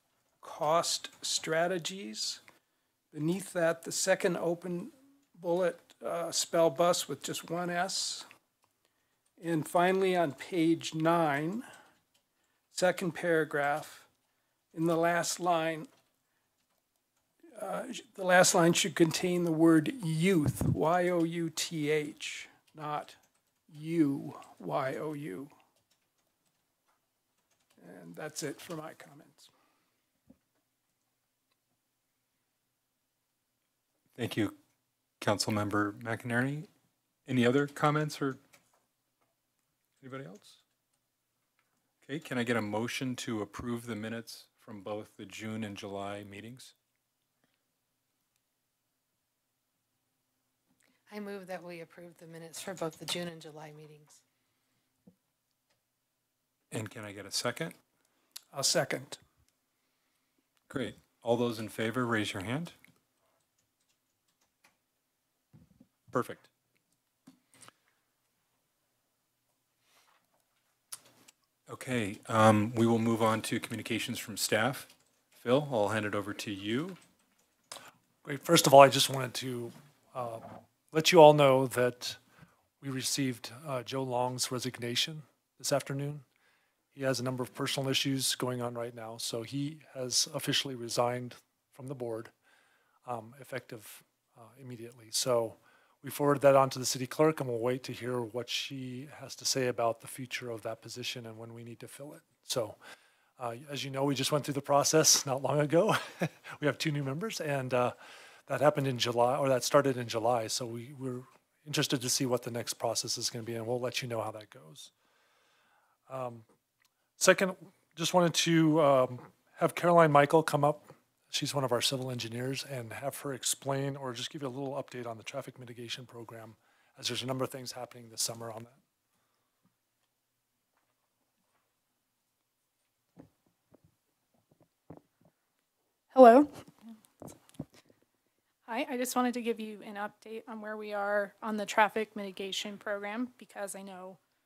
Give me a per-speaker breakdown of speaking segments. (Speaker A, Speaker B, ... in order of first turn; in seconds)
Speaker A: 0.4-2.4, 3.1-8.3, 9.4-11.7, 12.7-14.1, 14.7-15.9, 17.5-23.2, 23.7-25.5, 27.8-29.5, 58.5-59.2
Speaker B: 34.1-34.5, 35.2-36.7, 37.2-38.4, 40.0-40.6, 42.0-46.7, 56.7-57.8, 60.7-62.8, 66.1-66.5, 71.7-77.0
Speaker C: 51.1-54.2
Speaker D: 78.2-82.2, 82.8-86.2, 86.9-92.3, 93.0-102.8, 103.4-114.9, 116.1-116.5, 117.2-128.8
Speaker E: 136.1-136.7, 138.6-144.2